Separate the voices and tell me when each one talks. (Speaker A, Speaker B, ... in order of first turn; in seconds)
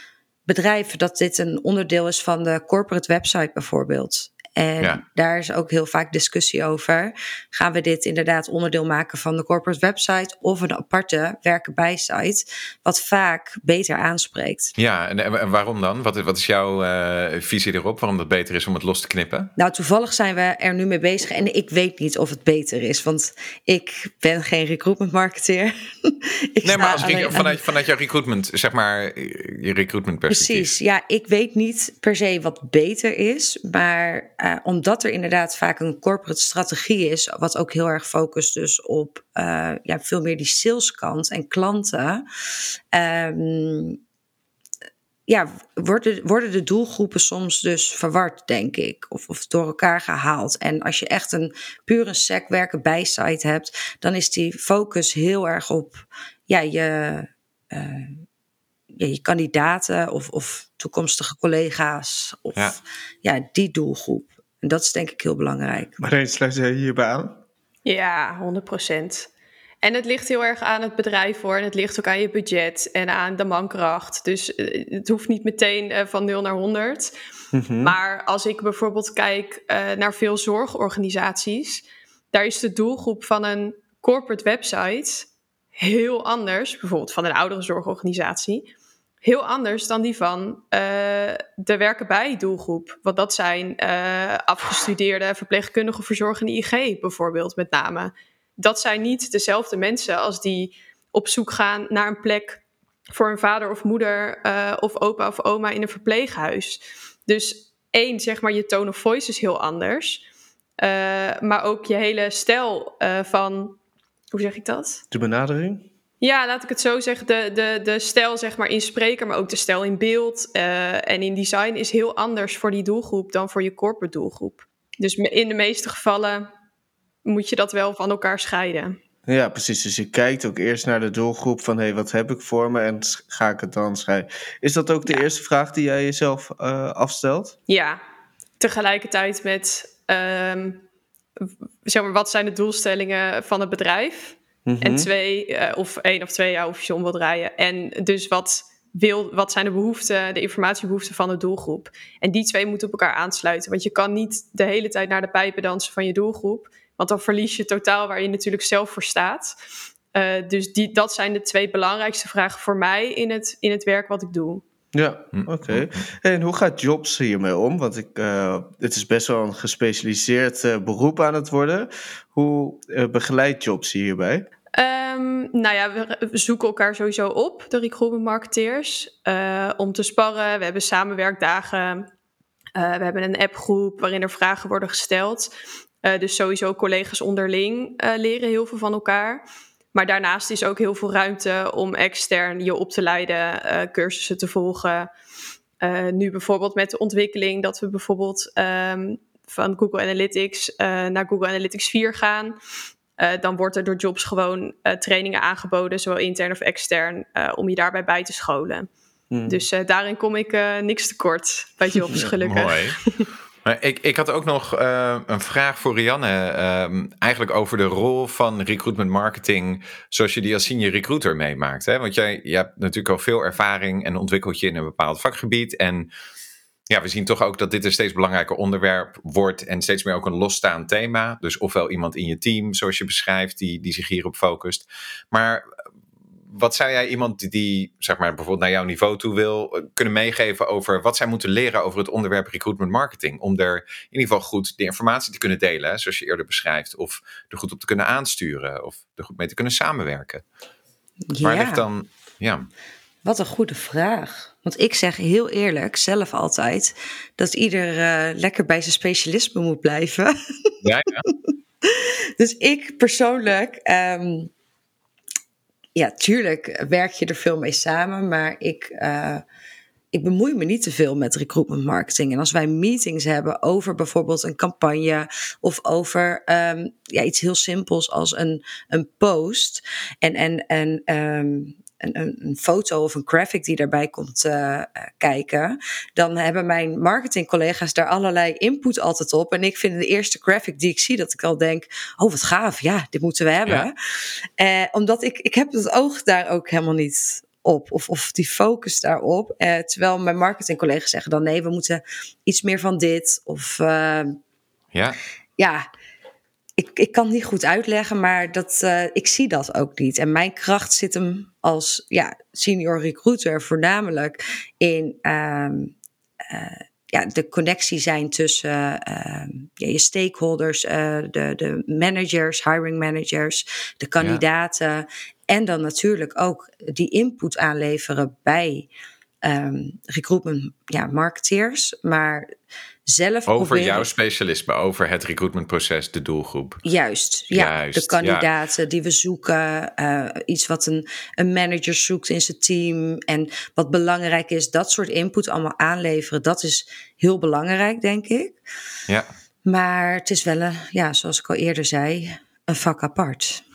Speaker A: 0.5-14.7, 19.6-27.6, 30.3-42.2, 42.9-44.0, 45.3-58.2, 58.9-66.0, 251.3-251.8, 253.2-260.7, 261.3-264.5, 265.9-269.4, 270.1-304.4, 305.6-305.9, 306.8-315.9, 316.4-328.9, 329.4-332.5, 333.1-334.1, 336.8-348.6, 349.6-353.6
Speaker B: 14.8-19.5, 26.6-30.7, 165.3-166.0, 212.4-213.0, 213.6-226.1, 226.9-235.7, 236.5-250.4, 251.4-252.7, 260.8-261.3, 304.9-305.2, 333.5-336.8, 337.5-338.5
Speaker C: 66.0-67.4, 77.5-78.0, 115.1-115.8, 129.3-137.5, 144.7-145.1, 164.9-174.4, 209.3-209.6
Speaker D: 67.8-69.3, 69.8-77.1, 77.8-88.7, 89.2-110.2, 110.8-113.8, 114.3-115.0, 116.2-126.5, 127.2-129.0, 137.7-138.0, 138.6-140.8, 141.4-159.5, 160.1-164.6, 174.7-182.1, 182.8-185.5, 186.0-195.1, 195.8-202.6, 203.2-208.9, 209.4-213.2